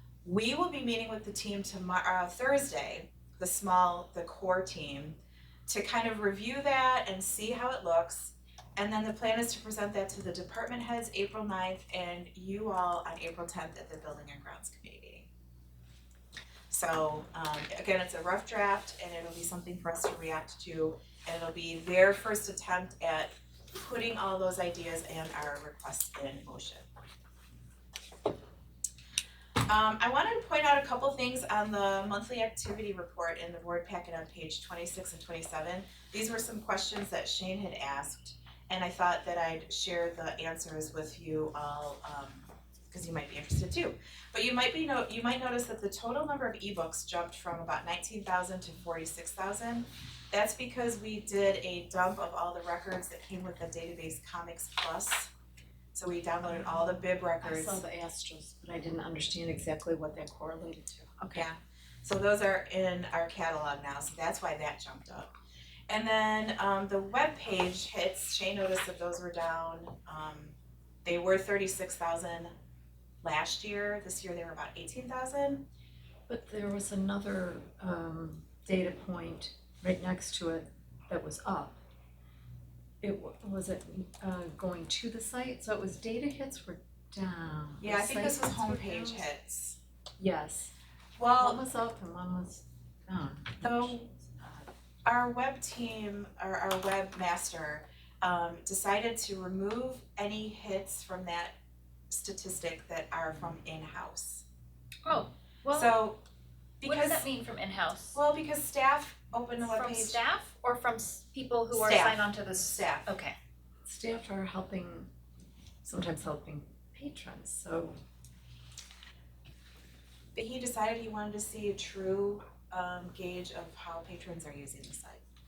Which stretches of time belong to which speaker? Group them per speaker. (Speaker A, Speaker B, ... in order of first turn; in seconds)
Speaker A: 0.2-15.3, 16.7-26.9, 29.7-55.3, 55.9-57.8, 61.3-65.3, 65.9-72.5, 73.2-75.6, 87.8-89.8, 91.2-91.6, 93.6-94.1, 95.0-101.5, 102.1-104.4, 105.7-106.2, 106.8-107.2, 108.1-110.2, 111.7-113.1, 120.3-125.2
Speaker B: 56.5-61.5, 76.3-81.8, 83.0-89.3, 90.2-90.7, 91.4-94.7, 113.8-115.1, 115.8-118.0
Speaker C: 105.0-105.9, 106.8-108.2, 109.6-113.3